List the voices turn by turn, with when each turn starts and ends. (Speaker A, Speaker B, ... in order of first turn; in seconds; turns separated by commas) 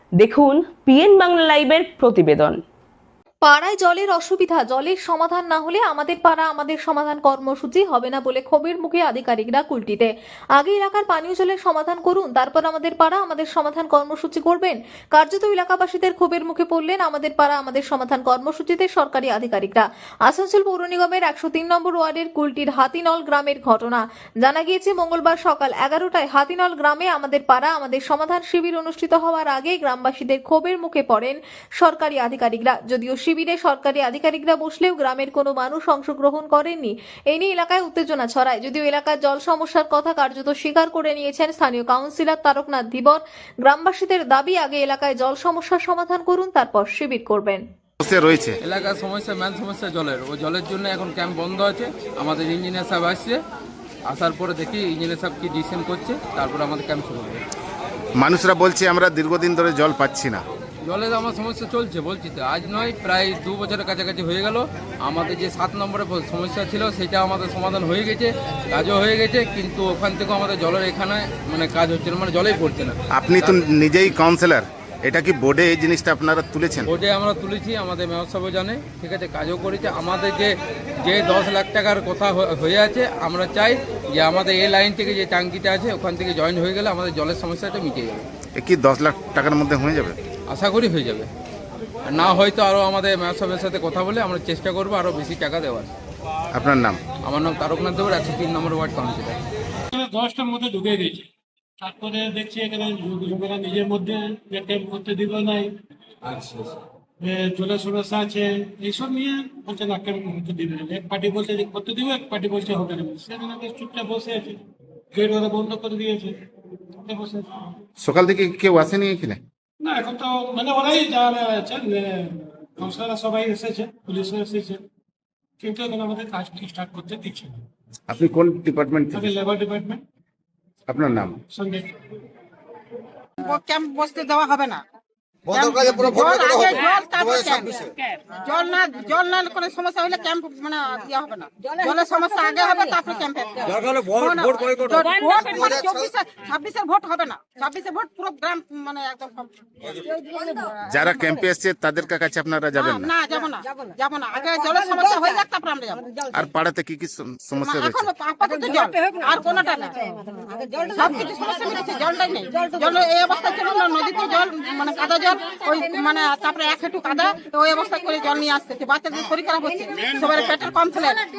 Speaker A: 0.2-2.6, Speaker B: 3.4-47.6, Speaker C: 48.0-48.5, Speaker D: 48.6-53.4, Speaker D: 54.1-57.4, Speaker C: 58.2-60.4, Speaker D: 60.8-73.6, Speaker C: 73.2-76.9, Speaker D: 76.8-88.3, Speaker C: 88.5-90.2, Speaker D: 90.5-91.3, Speaker D: 92.0-95.9, Speaker C: 96.5-97.0, Speaker D: 97.2-99.4, Speaker E: 99.9-101.3, Speaker E: 101.8-105.7, Speaker E: 106.2-114.6, Speaker E: 115.1-116.3, Speaker E: 117.0-117.7, Speaker C: 118.0-119.4, Speaker E: 119.8-124.8, Speaker E: 125.6-127.6, Speaker C: 128.1-129.3, Speaker E: 129.1-130.0, Speaker C: 130.9-131.4, Speaker E: 131.5-131.9, Speaker F: 133.4-134.8, Speaker F: 135.5-150.7, Speaker C: 150.9-153.1, Speaker F: 152.8-156.1, Speaker C: 156.3-158.1, Speaker F: 157.6-160.0, Speaker F: 160.9-171.3